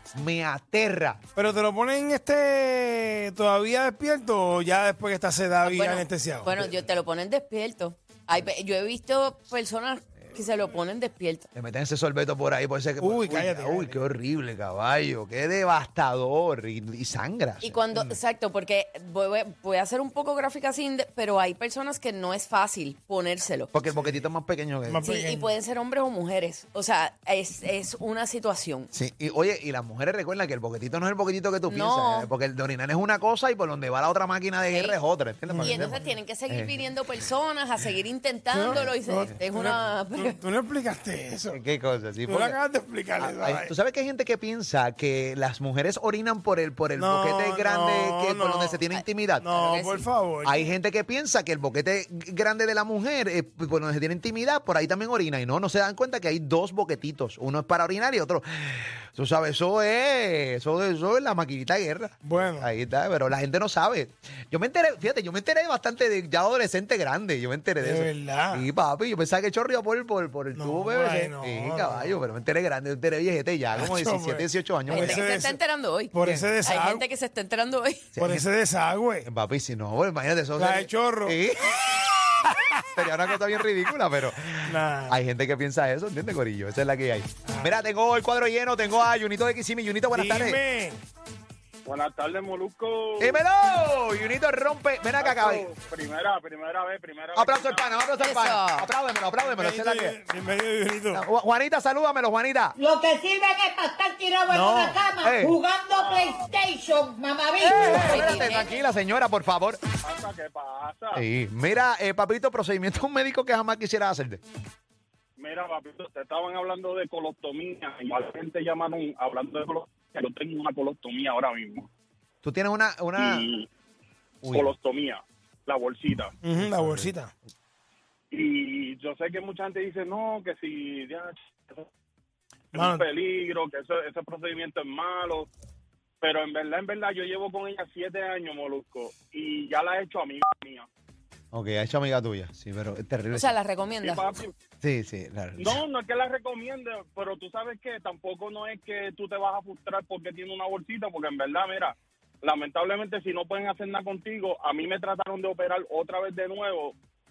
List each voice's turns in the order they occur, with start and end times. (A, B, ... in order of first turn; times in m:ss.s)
0:00.2-0:01.2 A
0:01.4-0:06.5 B
0:05.6-0:11.5 C
0:11.5-0:18.2 A
0:13.0-0:14.0 B
0:17.6-0:23.7 C
0:23.7-0:25.1 A
0:23.8-0:24.2 B
0:24.9-0:25.5 B
0:25.0-0:28.9 C
0:28.9-0:36.9 A
0:31.7-0:32.3 C
0:34.7-0:35.0 C
0:35.5-0:36.0 B
0:35.6-0:40.4 C
0:38.5-0:41.6 B
0:38.7-0:39.3 A
0:41.5-0:42.6 A
0:42.3-0:43.7 B
0:43.2-0:49.5 A
0:47.0-0:48.8 B
0:48.9-0:50.1 C
0:49.4-0:50.7 B
0:50.4-1:15.2 A
1:02.2-1:02.7 B
1:07.8-1:08.7 B
1:10.6-1:12.1 B
1:13.7-1:15.6 B
1:14.9-1:18.1 C
1:16.1-1:17.0 B
1:18.1-1:18.5 A
1:18.2-1:19.3 B
1:19.2-1:30.6 A
1:20.6-1:21.4 B
1:24.7-1:25.2 B
1:30.1-1:31.0 B
1:31.9-1:33.4 D
1:33.2-1:35.7 A
1:35.2-1:37.9 D
1:37.4-1:40.2 A
1:38.2-1:38.9 C
1:39.4-1:41.2 B
1:41.1-1:42.8 A
1:42.8-1:48.6 E
1:44.5-1:45.0 B
1:45.2-1:45.6 A
1:45.9-1:46.5 D
1:47.6-1:49.8 A
1:48.0-1:48.7 C
1:50.0-1:51.2 D
1:51.1-1:54.4 A
1:55.4-2:01.9 D
2:02.4-2:03.5 A
2:03.2-2:03.7 D
2:04.4-2:04.7 A
2:04.5-2:06.3 D
2:06.4-2:07.3 B
2:06.6-2:07.1 A
2:08.3-2:11.9 D
2:12.7-2:13.1 B
2:12.7-2:15.5 D
2:16.2-2:20.9 D
2:21.5-2:23.6 A
2:23.3-2:24.3 C
2:24.0-2:24.5 D
2:24.8-2:25.8 A
2:25.6-2:37.0 D